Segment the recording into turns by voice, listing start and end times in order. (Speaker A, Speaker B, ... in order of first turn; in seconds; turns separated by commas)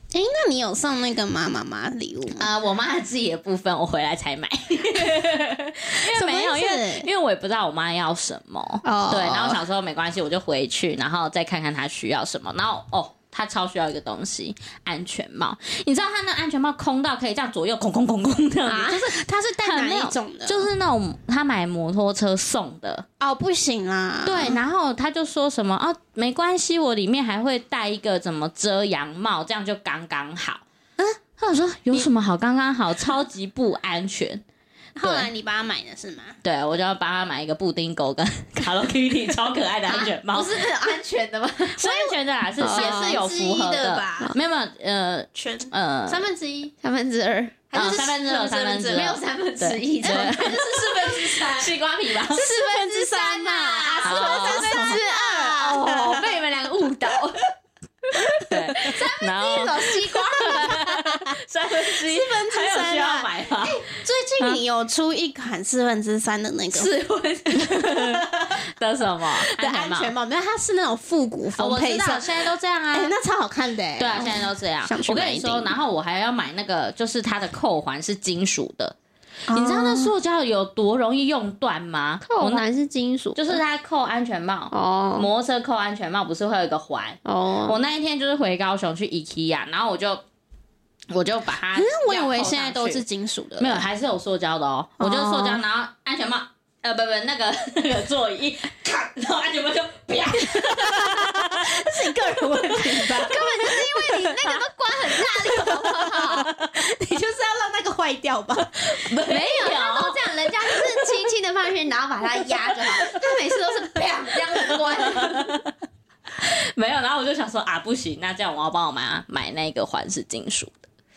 Speaker A: 0.1-2.5, Speaker B: 2.4-19.1, Speaker A: 6.0-7.1, Speaker A: 8.8-9.6, Speaker C: 18.7-19.1, Speaker A: 18.9-20.7, Speaker B: 19.6-23.1, Speaker A: 23.2-24.6, Speaker B: 24.2-30.6, Speaker B: 31.4-34.4, Speaker A: 35.0-36.4, Speaker B: 35.0-35.3, Speaker B: 36.4-40.6, Speaker C: 39.9-43.3, Speaker B: 41.6-46.3, Speaker A: 42.6-44.4, Speaker A: 45.4-46.7, Speaker C: 46.8-47.7, Speaker A: 47.7-49.2, Speaker B: 47.7-50.6, Speaker C: 48.9-51.5, Speaker A: 50.0-51.7, Speaker B: 51.5-52.5, Speaker A: 52.3-56.4, Speaker C: 52.3-57.5, Speaker B: 54.0-55.0, Speaker C: 58.2-61.0, Speaker B: 58.4-63.9, Speaker A: 60.5-61.1, Speaker A: 61.7-66.9, Speaker B: 66.8-70.1, Speaker C: 66.8-67.1, Speaker A: 67.5-68.6, Speaker A: 69.4-75.8, Speaker B: 71.6-73.1, Speaker B: 74.0-79.0, Speaker A: 79.5-80.1, Speaker B: 79.5-82.7, Speaker C: 82.2-83.6, Speaker B: 83.3-90.2, Speaker C: 84.7-85.3, Speaker C: 87.2-87.8, Speaker B: 91.1-93.0, Speaker A: 91.8-93.8, Speaker B: 93.6-103.3, Speaker A: 95.0-95.6, Speaker A: 100.5-104.6, Speaker C: 103.2-106.5, Speaker A: 105.2-109.1, Speaker B: 108.8-110.4, Speaker C: 109.3-115.5, Speaker A: 112.7-113.1, Speaker B: 115.0-115.7, Speaker B: 116.4-120.9